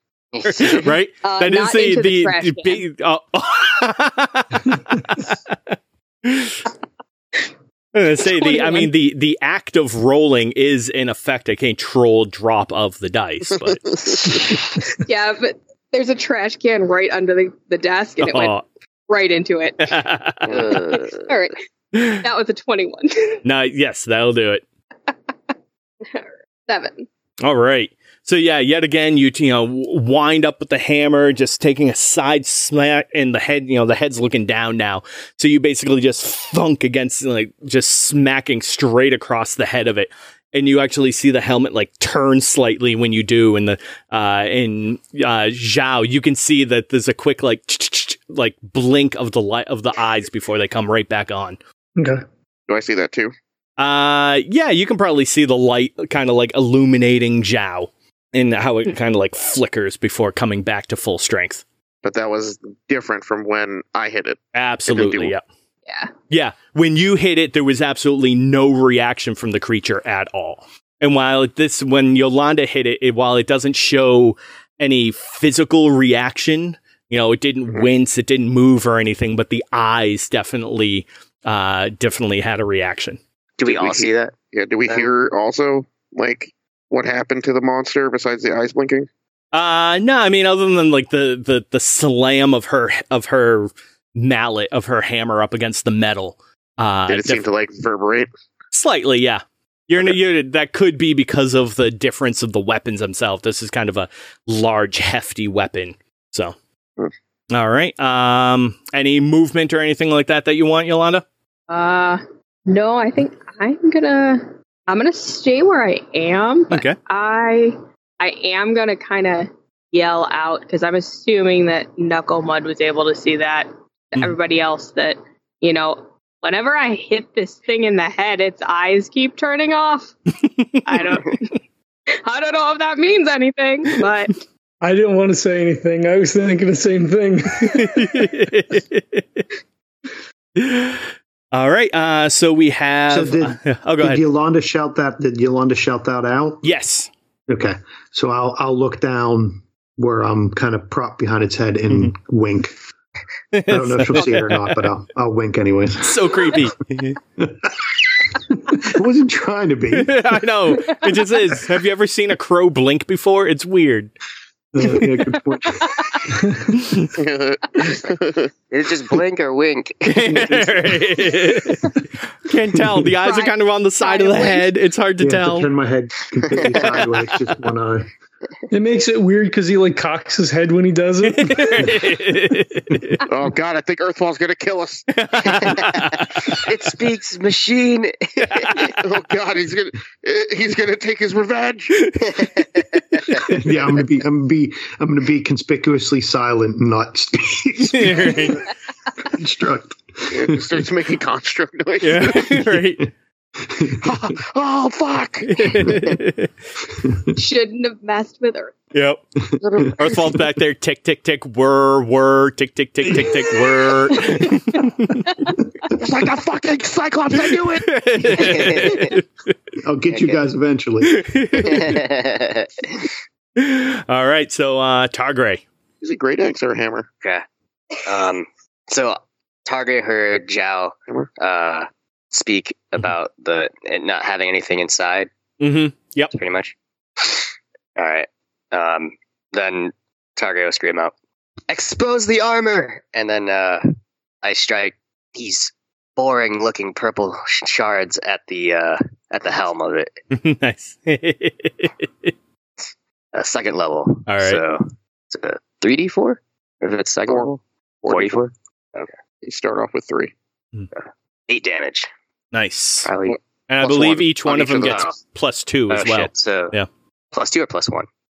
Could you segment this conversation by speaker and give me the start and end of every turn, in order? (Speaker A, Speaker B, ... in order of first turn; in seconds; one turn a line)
Speaker A: 0.3-0.9
Speaker B: 0.4-5.7
Speaker C: 1.2-2.8
Speaker B: 6.2-6.6
Speaker B: 7.9-13.9
Speaker C: 8.3-8.9
Speaker C: 14.3-20.0
Speaker B: 18.2-18.6
Speaker B: 19.8-20.8
Speaker A: 20.5-21.2
Speaker C: 20.7-23.4
Speaker B: 21.9-22.2
Speaker B: 23.4-24.6
Speaker C: 25.1-25.4
Speaker C: 26.0-27.1
Speaker B: 27.4-51.6
Speaker D: 52.0-52.2
Speaker E: 52.7-53.3
Speaker B: 53.8-61.6
Speaker E: 62.0-65.3
Speaker B: 64.5-65.4
Speaker B: 66.3-83.2
Speaker A: 83.6-84.3
Speaker E: 83.6-89.1
Speaker B: 89.5-97.5
Speaker E: 97.1-98.3
Speaker B: 98.7-106.5
Speaker B: 107.5-111.2
Speaker C: 111.7-130.1
Speaker B: 116.7-117.0
Speaker B: 130.4-131.0
Speaker C: 130.8-131.6
Speaker C: 132.1-134.4
Speaker D: 134.8-138.2
Speaker B: 137.6-139.4
Speaker B: 140.6-144.2
Speaker F: 143.1-146.7
Speaker B: 146.6-147.1
Speaker F: 147.5-152.8
Speaker B: 153.5-154.7
Speaker F: 153.7-156.7
Speaker B: 156.0-157.2
Speaker F: 157.4-160.2
Speaker B: 159.9-164.1
Speaker F: 164.7-166.2
Speaker C: 165.8-166.2
Speaker D: 166.3-166.6
Speaker B: 166.8-167.1
Speaker E: 167.1-168.5
Speaker A: 168.7-171.1
Speaker B: 170.1-175.7
Speaker C: 173.2-174.7
Speaker F: 175.2-178.1
Speaker D: 178.7-182.0
Speaker B: 181.2-183.2
Speaker E: 183.3-185.8
Speaker B: 185.1-186.7
Speaker A: 186.5-188.9
Speaker B: 188.4-189.0
Speaker E: 189.0-192.1
Speaker B: 192.1-193.4
Speaker A: 192.3-193.4
Speaker F: 193.3-198.7
Speaker B: 197.9-198.7
Speaker F: 199.2-200.9
Speaker E: 200.3-202.6
Speaker B: 202.0-203.1
Speaker F: 203.6-204.3
Speaker E: 203.9-206.2
Speaker B: 205.5-206.5
Speaker F: 207.0-207.3
Speaker C: 207.3-208.8
Speaker B: 208.9-209.2
Speaker F: 209.5-209.9
Speaker E: 209.6-210.1
Speaker B: 210.0-215.3
Speaker C: 214.2-214.4
Speaker E: 215.9-218.4
Speaker B: 217.5-219.2
Speaker A: 218.3-219.1
Speaker F: 219.8-221.2
Speaker A: 220.1-220.4
Speaker B: 221.1-222.0
Speaker A: 221.7-223.1
Speaker B: 223.6-225.6
Speaker E: 226.0-227.1
Speaker A: 228.1-235.3
Speaker B: 235.6-236.3
Speaker A: 236.3-241.1
Speaker A: 241.7-243.9
Speaker A: 244.4-250.1
Speaker B: 250.3-252.3
Speaker A: 253.3-259.1
Speaker B: 254.3-254.6
Speaker E: 257.3-258.4
Speaker E: 259.4-260.3
Speaker A: 261.0-262.1
Speaker B: 262.5-263.1
Speaker A: 263.1-263.4
Speaker E: 263.3-265.1
Speaker B: 263.7-266.9
Speaker A: 264.7-265.1
Speaker A: 265.9-266.7
Speaker A: 267.3-268.1